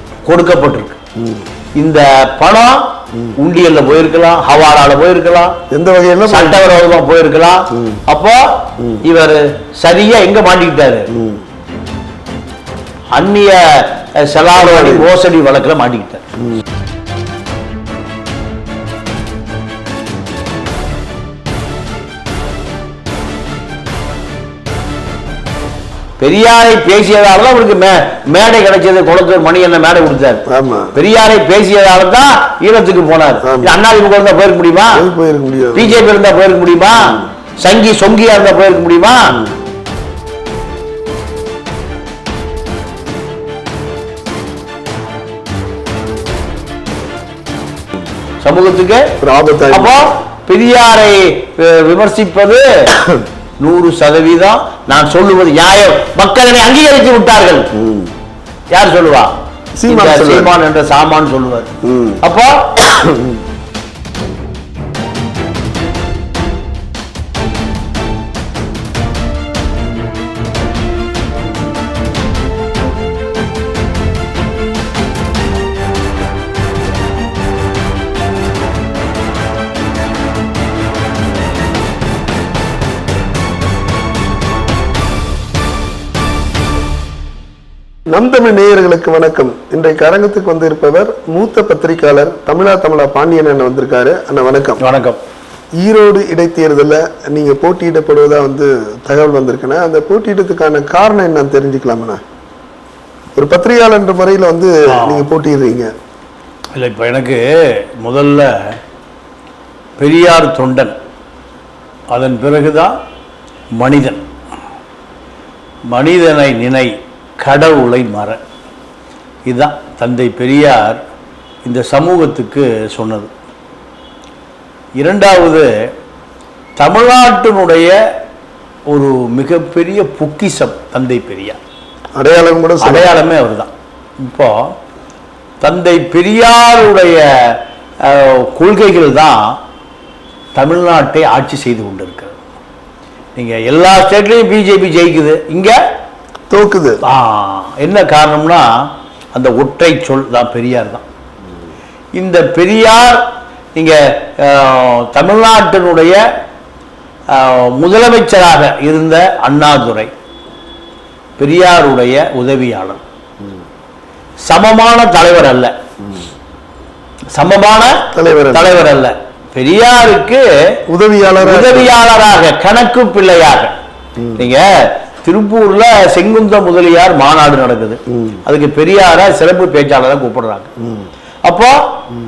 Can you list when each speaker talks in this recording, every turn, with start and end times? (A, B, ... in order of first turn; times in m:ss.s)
0:00.2-0:01.0 A
0:01.2-0:01.4 B
0:01.8-0:05.6 A
0:05.7-0:06.6 B
0:06.3-0:11.1 A
0:11.1-0:11.4 B
0:13.1-0:16.2 A
0:14.5-0:15.1 B
0:26.2-0:30.4 A
0:30.5-0:30.9 B
0:30.9-0:35.0 A
0:33.4-0:33.8 B
0:34.9-0:35.9 B
0:35.7-0:39.4 A
0:48.4-0:49.1 A
0:49.2-0:50.0 B
0:49.7-0:53.0 A
0:53.0-0:53.2 B
0:53.6-0:57.7 A
0:57.7-0:58.1 B
0:58.7-0:59.3 A
0:59.8-1:00.5 B
0:59.8-1:01.7 A
1:01.8-1:02.2 B
1:02.2-1:02.9 A
1:02.9-1:03.4 B
1:28.1-1:34.8 B
1:34.8-1:35.2 A
1:35.8-1:42.2 B
1:43.4-1:45.9 B
1:44.9-1:45.3 A
1:46.7-1:48.8 A
1:50.0-1:51.0 A
1:52.1-1:53.0 A
1:53.8-1:54.2 A
1:55.9-1:58.4 A
1:59.4-2:01.0 A
2:01.6-2:03.3 A
2:05.0-2:05.7 A
2:06.8-2:08.0 A
2:08.9-2:11.6 A
2:12.2-2:13.1 B
2:12.8-2:13.7 A
2:14.2-2:14.7 A
2:15.6-2:19.6 A
2:20.5-2:22.4 A
2:23.4-2:25.8 A
2:26.5-2:27.0 B
2:27.0-2:31.0 A
2:32.2-2:36.2 A
2:37.3-2:40.1 A
2:41.4-2:43.0 A
2:44.5-2:45.7 A
2:47.3-2:50.8 A
2:48.1-2:48.8 B
2:50.9-2:51.9 B
2:51.4-2:53.7 A
2:54.2-2:54.4 B
2:54.3-3:00.7 A
2:58.1-2:58.4 B
3:01.4-3:02.0 A